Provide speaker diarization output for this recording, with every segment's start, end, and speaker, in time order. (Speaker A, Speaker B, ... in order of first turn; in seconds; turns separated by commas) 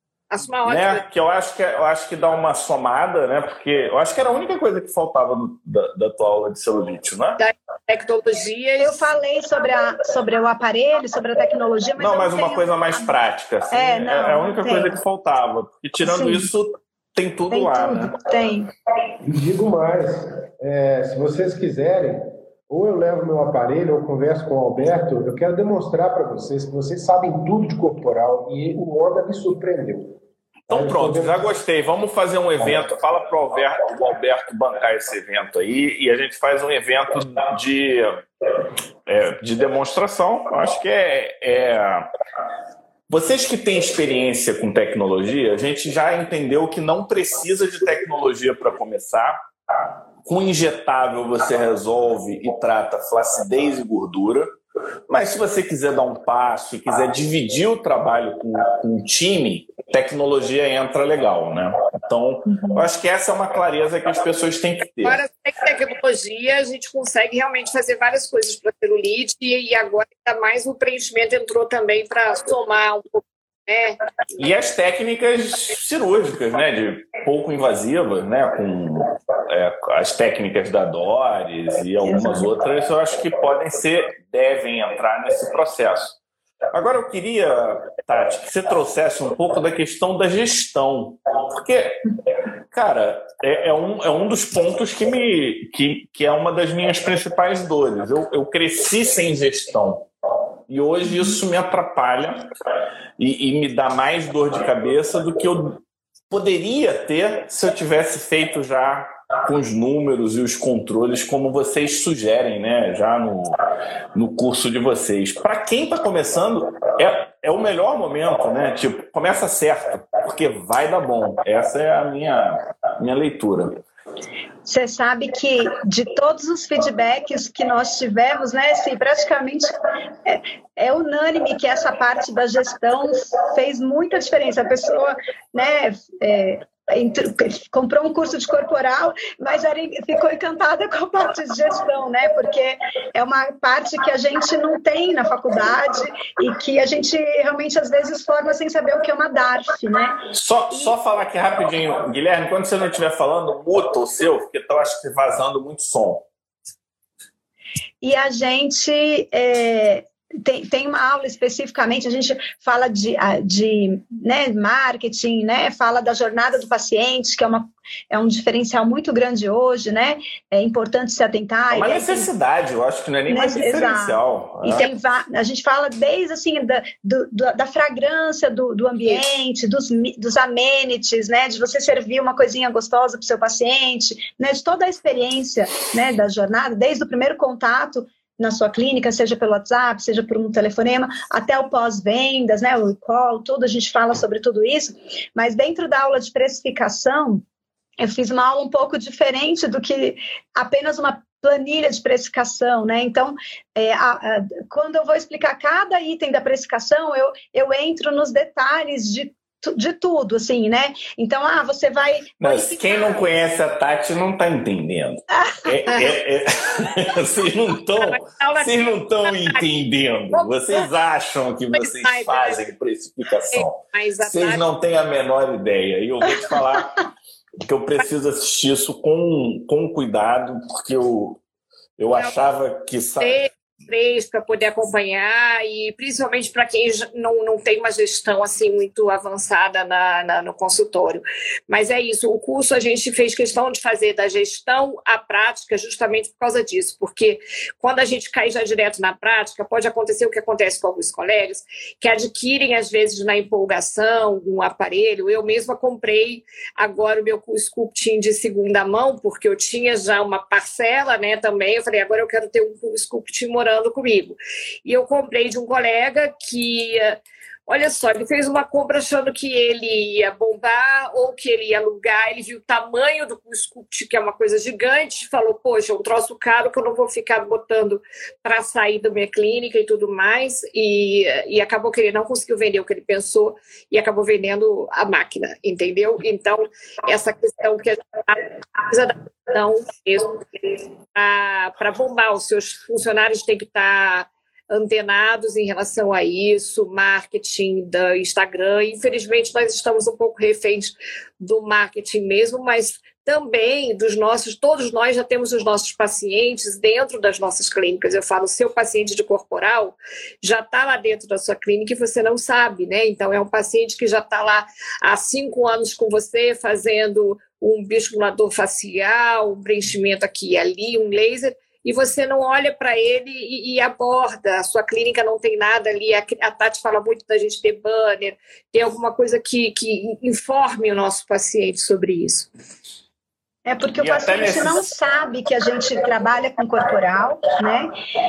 Speaker A: 0.3-1.0, Speaker B: 0.6-7.4, Speaker A: 7.4-9.1, Speaker C: 8.8-13.1, Speaker B: 12.0-18.1, Speaker C: 13.7-14.9, Speaker C: 16.0-16.5, Speaker C: 17.5-18.7, Speaker D: 19.2-30.2, Speaker B: 30.7-38.2, Speaker D: 30.7-31.5, Speaker B: 39.1-42.1, Speaker B: 43.1-49.4, Speaker B: 50.2-54.5, Speaker B: 55.1-65.2, Speaker A: 65.0-74.0, Speaker B: 74.4-86.2, Speaker C: 82.0-82.5, Speaker B: 86.7-92.0, Speaker B: 92.7-100.1, Speaker B: 100.7-102.5, Speaker B: 103.2-113.6, Speaker B: 114.1-123.8, Speaker C: 124.6-129.7, Speaker C: 130.2-150.2, Speaker B: 150.3-156.3, Speaker C: 158.0-172.3, Speaker B: 171.7-174.8, Speaker C: 173.3-197.4, Speaker C: 198.0-213.1, Speaker B: 212.4-226.9, Speaker C: 215.5-215.8, Speaker A: 218.0-219.6, Speaker A: 220.3-220.8, Speaker A: 221.7-222.6, Speaker A: 223.5-224.6, Speaker B: 227.6-231.4, Speaker B: 232.0-233.4, Speaker A: 233.2-332.5, Speaker C: 333.6-337.9, Speaker B: 334.0-334.9